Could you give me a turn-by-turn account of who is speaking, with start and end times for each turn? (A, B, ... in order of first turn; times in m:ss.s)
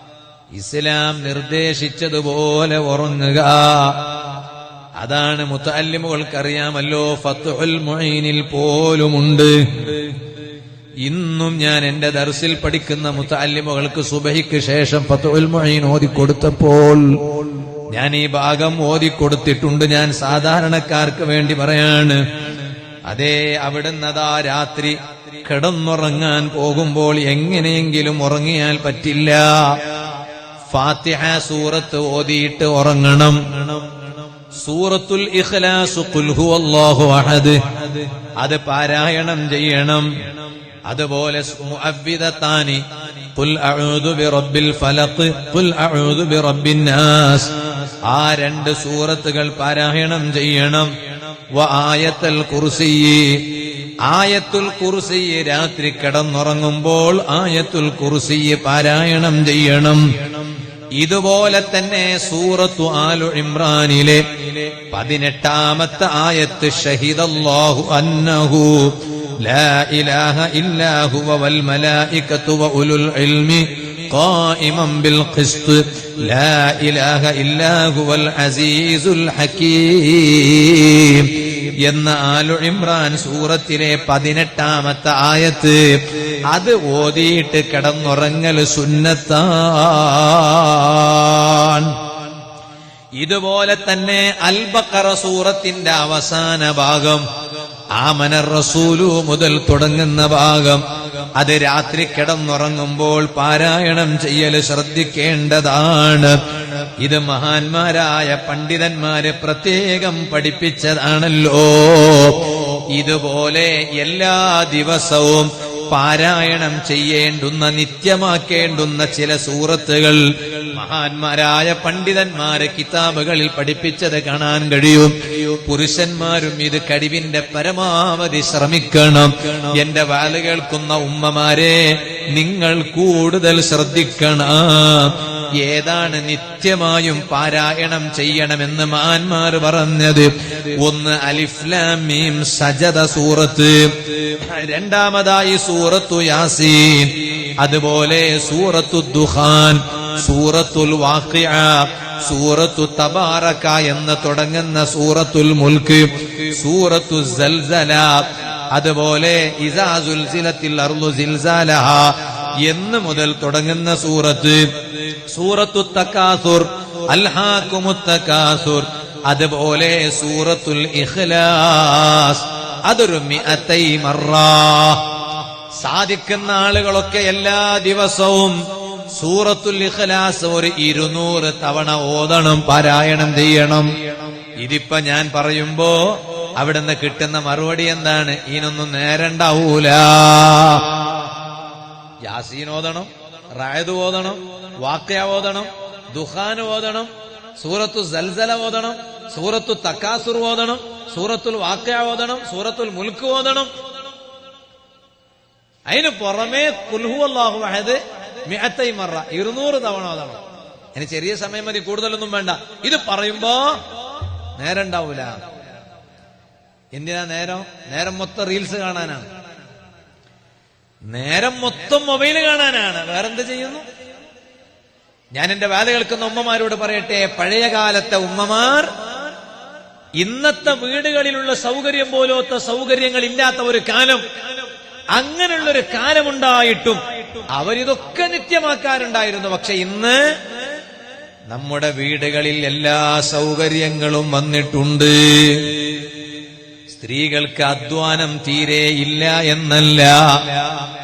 0:00.5-0:04.1 A
0:05.0-0:10.1 A
0:11.0-0:29.9 A
0:30.7-0:33.9 A
0:34.5-0:40.2 A
0:40.9-1:32.1 A
1:33.2-1:37.3 A
1:37.9-2:55.2 A
2:55.7-3:03.9 A
3:04.5-3:11.2 A
3:12.2-3:23.7 A
3:25.9-3:30.4 A
3:30.9-3:33.8 A
3:34.6-3:35.4 A
3:36.9-3:39.3 A
3:41.1-3:43.8 A
3:45.3-3:49.0 A
3:50.2-3:54.2 A
3:55.1-4:00.4 A
4:01.5-4:06.0 A
4:06.9-4:10.8 A